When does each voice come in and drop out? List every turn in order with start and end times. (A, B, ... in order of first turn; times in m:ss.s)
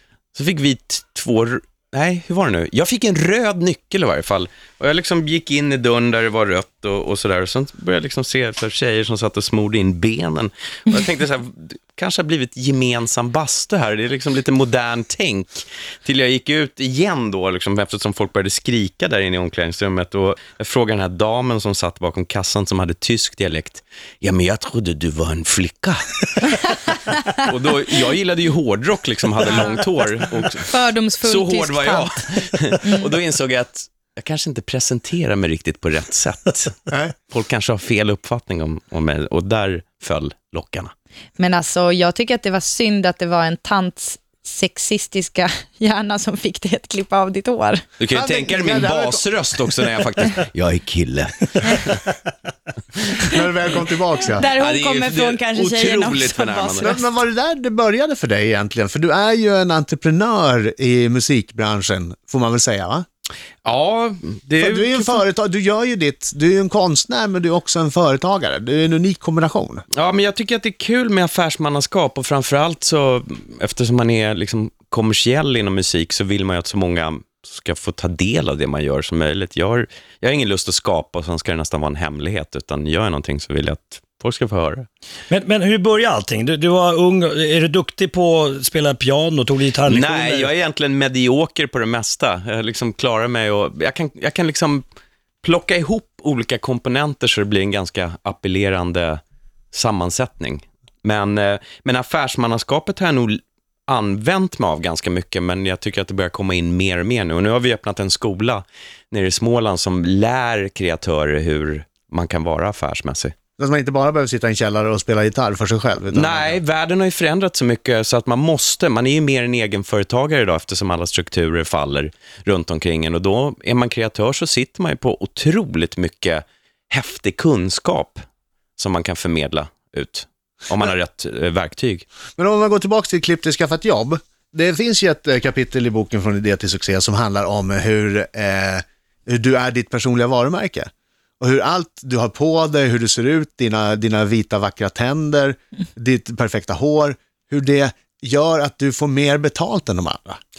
0:00.4-0:30.7 A
0:29.5-0:29.9 B
0:30.6-0:33.1 B
0:31.2-0:40.9 A
0:41.4-0:47.8 B
0:48.0-0:52.0 A
0:48.1-0:49.3 C
0:53.3-0:54.4 C
0:54.4-0:57.1 B
0:54.4-0:56.9 A
0:56.8-1:03.0 C
1:03.6-1:05.2 A
1:04.6-1:09.9 C
1:09.9-1:24.9 A
1:25.3-1:30.5 D
1:29.9-1:34.8 A
1:35.4-1:39.2 A
1:39.7-1:53.3 A
1:53.6-1:56.6 C
1:56.1-2:08.2 A
2:08.8-2:12.1 A
2:12.4-2:20.9 C
2:21.4-2:30.4 C